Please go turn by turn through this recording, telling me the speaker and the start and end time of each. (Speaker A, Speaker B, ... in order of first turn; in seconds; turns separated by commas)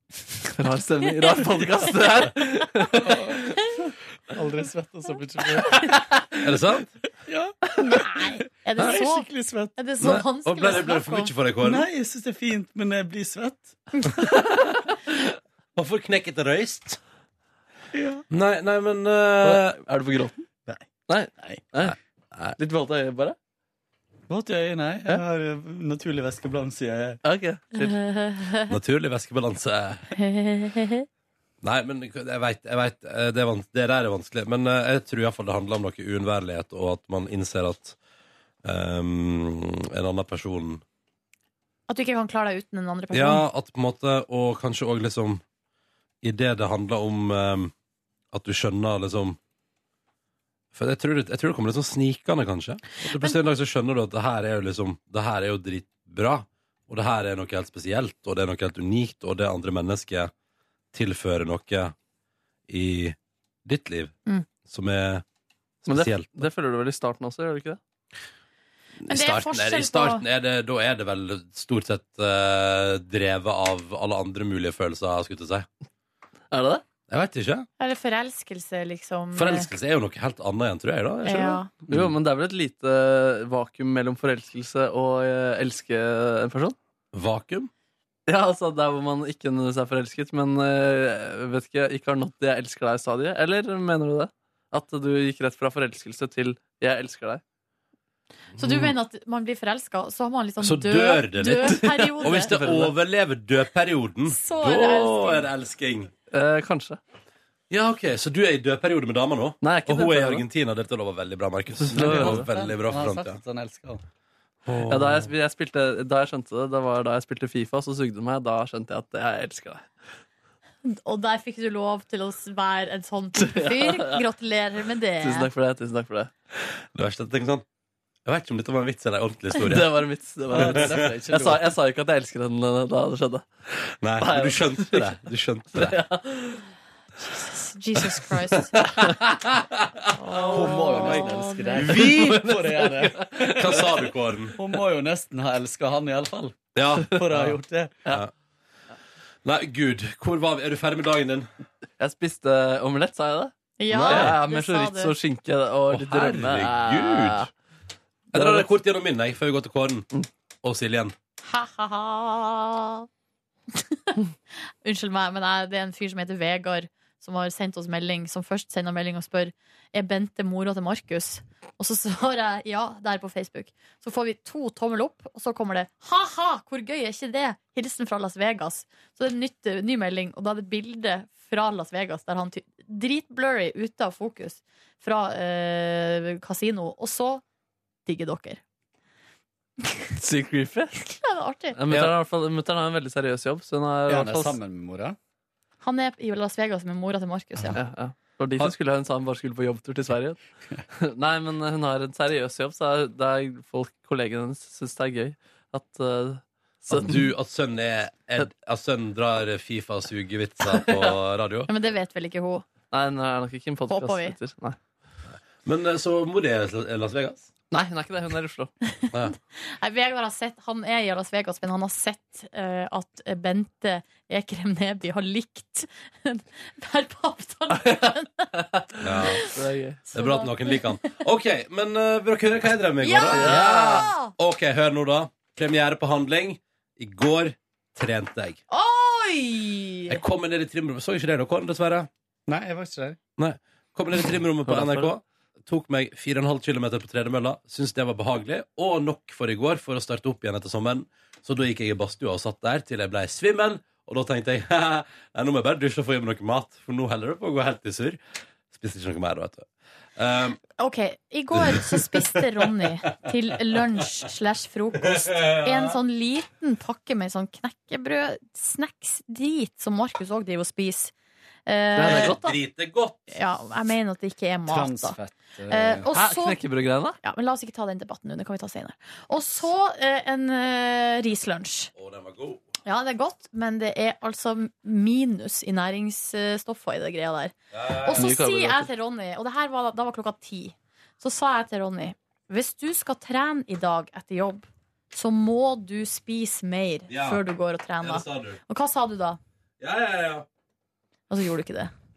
Speaker A: 0.5-3.2, Speaker B: 2.9-3.5, Speaker B: 4.3-6.0, Speaker C: 6.4-6.9, Speaker B: 7.2-9.8, Speaker D: 8.0-11.3, Speaker C: 10.0-11.9, Speaker B: 11.6-13.8, Speaker C: 15.8-17.0, Speaker B: 17.9-18.2, Speaker C: 18.3-19.8, Speaker A: 19.4-20.4, Speaker A: 21.1-22.0, Speaker C: 21.9-22.6, Speaker A: 22.6-23.4, Speaker B: 24.3-27.2, Speaker A: 27.2-28.0, Speaker D: 27.8-28.7, Speaker C: 28.7-30.1, Speaker D: 30.2-31.1, Speaker C: 31.6-38.0, Speaker C: 38.6-40.8, Speaker D: 41.9-43.4, Speaker C: 43.1-45.4, Speaker C: 46.2-47.7, Speaker C: 48.3-49.4, Speaker C: 50.7-60.3, Speaker C: 60.9-62.0, Speaker C: 62.7-64.2, Speaker C: 64.7-65.2, Speaker C: 65.8-66.5, Speaker A: 65.9-67.8, Speaker C: 69.0-75.7, Speaker D: 69.1-70.2, Speaker A: 76.5-76.8, Speaker C: 77.1-77.7, Speaker D: 77.8-79.7, Speaker C: 79.3-82.1, Speaker D: 81.2-81.7, Speaker A: 81.9-86.8, Speaker C: 87.1-87.7, Speaker A: 88.3-97.4, Speaker C: 98.6-99.0, Speaker D: 98.6-102.5, Speaker C: 100.6-106.1, Speaker A: 101.8-102.9, Speaker D: 104.3-105.5, Speaker A: 106.3-107.0, Speaker C: 107.7-113.4, Speaker A: 109.6-110.4, Speaker A: 111.8-112.5, Speaker B: 111.9-114.0, Speaker C: 114.7-115.3, Speaker A: 114.9-119.9, Speaker D: 120.8-125.5, Speaker A: 123.4-124.2, Speaker A: 125.2-126.3, Speaker C: 126.6-127.7, Speaker C: 128.3-129.9, Speaker A: 129.6-133.5, Speaker B: 130.5-131.7, Speaker C: 130.5-131.0, Speaker C: 134.0-136.0, Speaker A: 134.2-135.2, Speaker A: 135.7-136.7, Speaker D: 137.2-138.8, Speaker C: 138.8-141.2, Speaker D: 140.2-141.9, Speaker B: 140.5-148.1, Speaker C: 141.8-142.6, Speaker A: 142.0-143.8, Speaker C: 143.6-144.6, Speaker C: 146.8-147.5, Speaker C: 149.4-151.5, Speaker A: 152.0-157.5, Speaker D: 153.8-155.1, Speaker C: 153.9-154.4, Speaker C: 155.9-157.5, Speaker C: 158.3-160.1, Speaker A: 158.3-158.7, Speaker C: 160.6-161.2, Speaker D: 161.4-163.1, Speaker D: 163.7-164.2, Speaker D: 164.8-187.4, Speaker D: 188.1-188.6, Speaker A: 190.2-191.2, Speaker D: 191.2-191.8, Speaker A: 191.7-194.6, Speaker C: 191.9-192.1, Speaker B: 194.1-195.2, Speaker D: 195.8-197.8, Speaker A: 197.8-200.4, Speaker A: 200.9-207.3, Speaker C: 206.9-211.7, Speaker A: 210.7-211.2, Speaker D: 211.7-212.7, Speaker A: 212.9-214.8, Speaker D: 213.9-214.4, Speaker C: 215.6-217.5, Speaker A: 217.7-218.7, Speaker D: 219.2-228.5, Speaker A: 228.6-230.0, Speaker C: 229.0-229.5, Speaker D: 229.2-229.5, Speaker D: 230.1-231.2, Speaker C: 230.1-238.6, Speaker D: 233.0-234.3, Speaker A: 233.3-234.1, Speaker D: 238.7-240.2, Speaker C: 240.1-242.1, Speaker B: 242.5-243.2, Speaker C: 243.4-260.6, Speaker A: 244.7-245.1, Speaker D: 260.8-271.1, Speaker C: 261.6-262.5, Speaker C: 265.2-266.0, Speaker D: 271.7-272.6, Speaker A: 271.9-272.4, Speaker C: 272.0-273.4, Speaker D: 273.3-275.2, Speaker B: 274.7-276.1, Speaker D: 275.7-276.6, Speaker A: 276.1-277.2, Speaker D: 277.2-281.9, Speaker C: 281.9-282.6, Speaker D: 282.9-299.4, Speaker C: 287.7-288.3, Speaker A: 288.2-288.9, Speaker C: 297.1-297.4, Speaker C: 298.0-298.6, Speaker C: 299.8-300.5, Speaker D: 301.3-301.9